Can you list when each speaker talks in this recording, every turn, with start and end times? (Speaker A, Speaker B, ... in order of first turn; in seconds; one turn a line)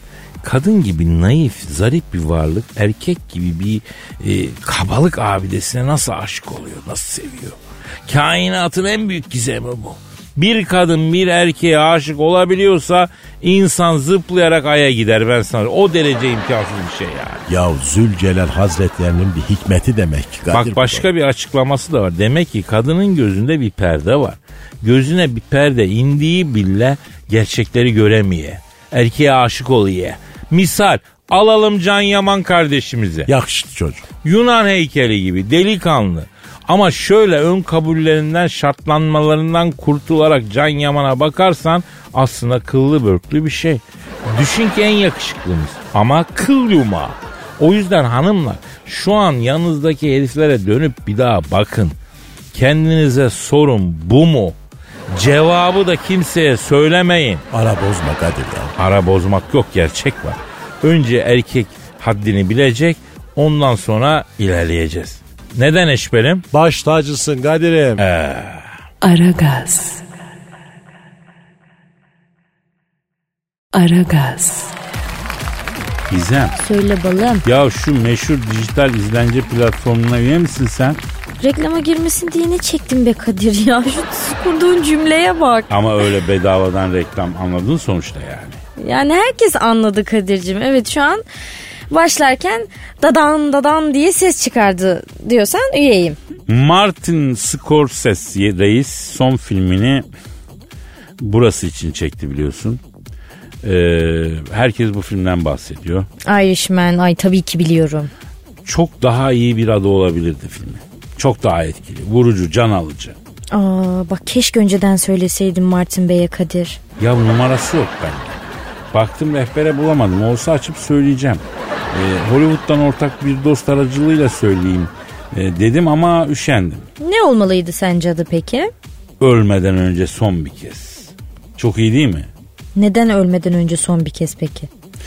Speaker A: 0.4-17.4
Speaker B: 17.5-21.1
Speaker A: 20.5-33.3
Speaker B: 33.3-34.0
Speaker A: 34.2-52.0
Speaker A: 52.5-54.5
Speaker A: 55.1-57.4
Speaker B: 57.5-58.7
Speaker A: 58.8-66.4
Speaker B: 66.5-68.0
Speaker A: 68.0-68.6
Speaker C: 69.0-70.0
Speaker C: 73.7-74.7
Speaker D: 76.1-76.5
Speaker E: 76.6-77.4
Speaker D: 77.4-81.0
Speaker E: 81.4-85.7
Speaker D: 85.7-88.6
Speaker E: 88.8-91.2
Speaker E: 91.9-96.2
Speaker D: 96.5-100.0
Speaker D: 101.2-102.8
Speaker D: 103.6-106.1
Speaker E: 106.2-108.1
Speaker D: 108.6-113.2
Speaker E: 113.5-116.8
Speaker D: 117.0-118.3
Speaker D: 118.9-126.9
Speaker E: 127.0-128.7
Speaker D: 129.2-132.3
Speaker E: 132.7-134.7